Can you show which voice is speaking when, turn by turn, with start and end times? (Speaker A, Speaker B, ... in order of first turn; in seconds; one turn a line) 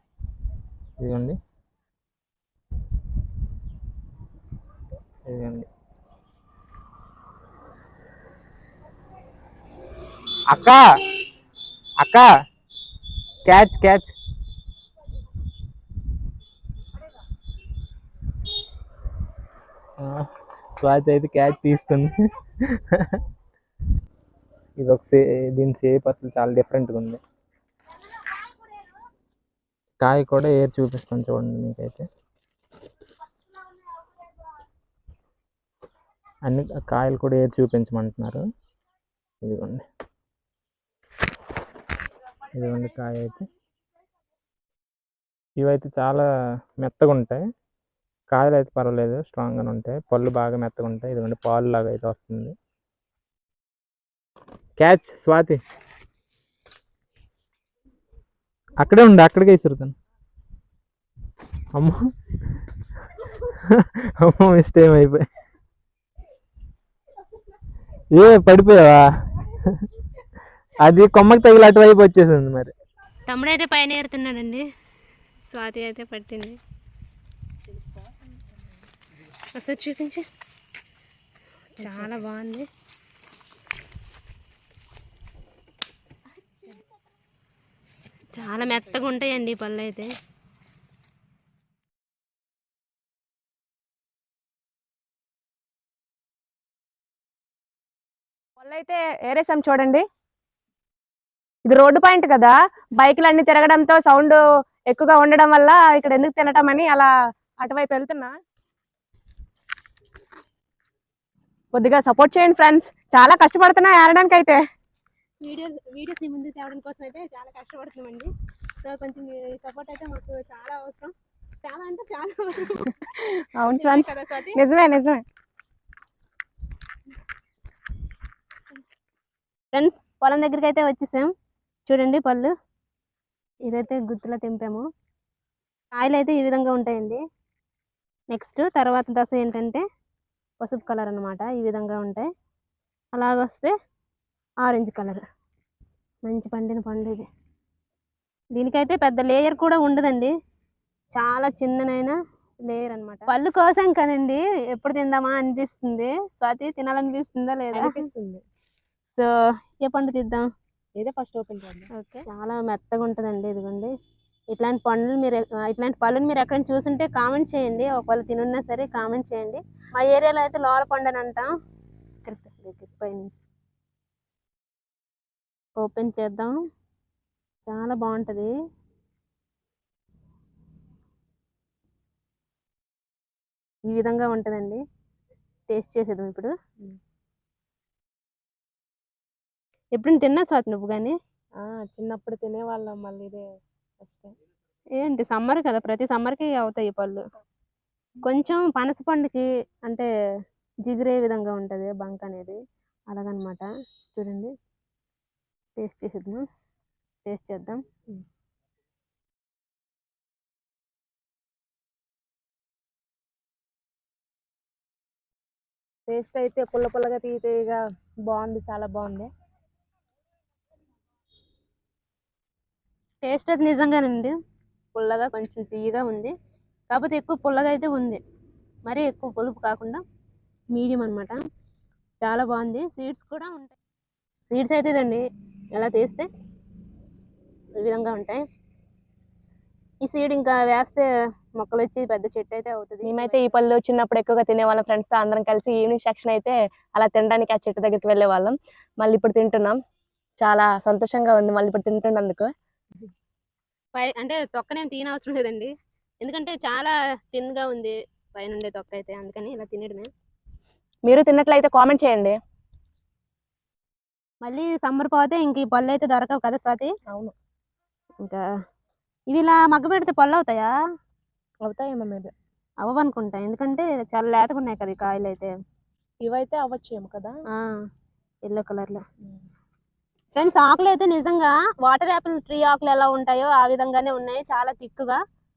Speaker A: 1.0-1.4
Speaker A: 5.2-5.7
Speaker A: 10.5-10.8
Speaker A: 12.0-12.3
Speaker A: 13.4-14.1
Speaker A: 20.0-23.2
Speaker A: 24.8-27.2
Speaker A: 30.0-32.0
Speaker A: 36.4-38.4
Speaker A: 39.4-39.9
Speaker A: 42.5-43.4
Speaker A: 45.6-46.2
Speaker A: 46.8-47.4
Speaker A: 48.3-52.5
Speaker A: 54.8-55.6
Speaker A: 58.8-59.9
Speaker A: 63.1-65.2
Speaker A: 68.1-69.9
Speaker A: 70.8-72.7
Speaker B: 73.3-74.6
Speaker B: 75.5-76.6
Speaker B: 79.5-80.2
Speaker B: 81.8-82.7
Speaker B: 88.3-90.1
Speaker C: 98.6-100.0
Speaker C: 101.6-108.4
Speaker C: 111.7-114.6
Speaker B: 115.4-118.3
Speaker B: 118.8-121.1
Speaker B: 121.6-123.1
Speaker C: 123.2-125.2
Speaker B: 123.7-124.6
Speaker B: 129.7-131.3
Speaker B: 131.9-132.5
Speaker B: 133.6-134.8
Speaker B: 135.9-137.2
Speaker B: 138.3-139.8
Speaker B: 140.6-142.2
Speaker B: 143.1-143.7
Speaker B: 144.6-145.2
Speaker B: 146.3-147.2
Speaker B: 148.5-150.3
Speaker B: 151.1-158.0
Speaker C: 157.7-158.4
Speaker B: 159.8-160.5
Speaker C: 160.9-161.9
Speaker B: 161.9-163.9
Speaker B: 164.5-171.5
Speaker B: 172.2-173.4
Speaker B: 175.8-176.5
Speaker B: 177.7-178.5
Speaker B: 183.9-184.8
Speaker B: 185.7-186.5
Speaker B: 189.9-191.2
Speaker C: 191.6-193.4
Speaker C: 194.0-194.3
Speaker B: 195.0-197.2
Speaker B: 198.2-200.1
Speaker B: 200.8-202.6
Speaker B: 203.1-204.5
Speaker B: 205.8-206.4
Speaker B: 207.2-207.8
Speaker C: 216.1-219.3
Speaker B: 223.2-224.3
Speaker B: 224.9-226.3
Speaker B: 226.9-228.2
Speaker B: 228.8-230.0
Speaker B: 230.7-231.4
Speaker B: 232.2-233.8
Speaker B: 234.5-236.3
Speaker B: 237.8-238.4
Speaker B: 240.0-241.1
Speaker B: 241.6-243.5
Speaker C: 243.0-249.8
Speaker C: 250.4-252.5
Speaker B: 253.9-260.1
Speaker C: 261.1-262.4
Speaker B: 264.4-266.9
Speaker B: 269.3-270.7
Speaker C: 271.6-272.3
Speaker B: 272.8-275.5
Speaker C: 276.2-277.4
Speaker B: 277.5-277.8
Speaker B: 278.4-279.0
Speaker B: 280.4-285.2